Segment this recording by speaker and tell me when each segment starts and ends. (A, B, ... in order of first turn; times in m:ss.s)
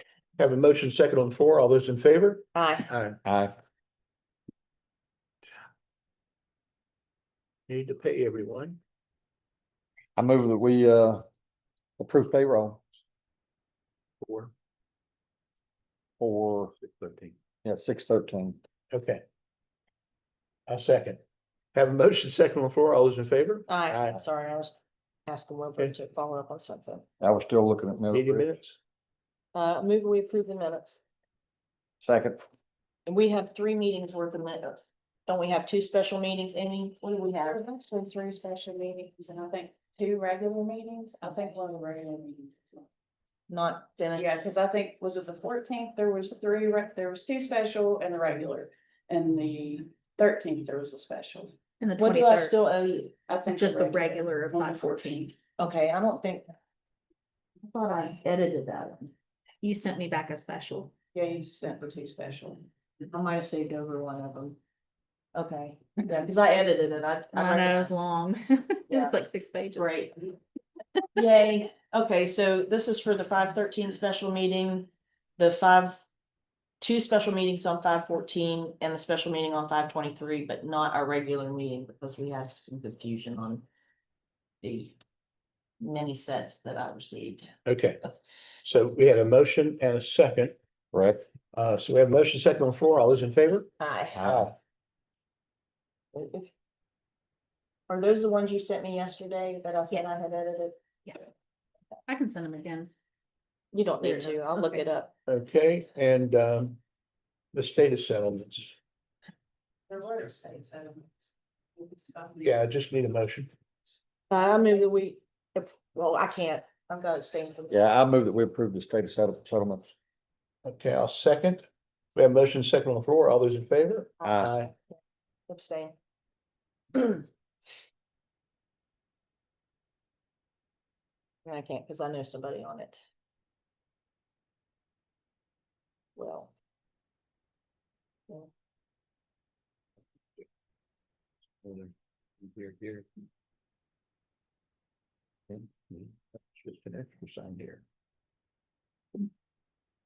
0:00.4-0:03.2 A
0:02.5-0:02.9 B
0:03.2-0:03.5 C
0:07.7-0:08.8 A
0:10.2-0:11.2 C
0:12.0-0:12.8 C
0:14.2-0:14.5 A
0:16.2-0:16.7 C
0:16.9-0:17.3 A
0:17.6-0:18.6 C
0:18.9-0:19.2 A
0:20.7-0:21.2 A
0:21.7-0:24.2 A
0:23.7-0:27.0 B
0:27.2-0:28.4 C
0:28.1-0:28.8 A
0:29.5-0:31.0 B
0:32.0-0:32.4 C
0:33.0-0:37.6 B
0:37.3-0:42.8 D
0:43.5-0:44.3 B
0:44.1-0:51.6 D
0:51.8-0:52.5 E
0:52.0-0:53.1 B
0:53.3-0:55.3 D
0:53.5-0:55.3 E
0:55.6-0:56.5 B
0:57.6-0:59.1 B
0:59.6-1:00.9 E
1:01.1-1:02.7 D
1:03.1-1:04.6 B
1:05.3-1:08.0 B
1:07.3-1:09.8 E
1:08.9-1:09.2 B
1:09.7-1:10.3 B
1:11.1-1:16.0 B
1:16.8-1:23.6 B
1:24.6-1:24.9 B
1:25.8-1:27.5 B
1:27.6-1:28.0 A
1:28.6-1:30.5 A
1:30.9-1:31.2 C
1:31.5-1:33.7 A
1:33.8-1:34.2 B
1:34.2-1:34.5 C
1:34.2-1:34.5 A
1:36.1-1:36.5 B
1:37.9-1:40.8 B
1:42.1-1:43.0 E
1:43.7-1:45.1 B
1:45.3-1:46.8 A
1:47.5-1:48.7 A
1:49.9-1:51.3 D
1:51.8-1:52.4 D
1:52.4-1:53.5 A
1:54.3-1:57.8 B
1:57.7-1:59.9 C
2:00.6-2:04.7 A
2:04.2-2:04.5 C
2:05.5-2:05.9 B
2:11.4-2:13.0 B
2:16.2-2:16.5 B
2:21.6-2:21.9 A
2:22.4-2:23.0 A
2:25.5-2:27.8 A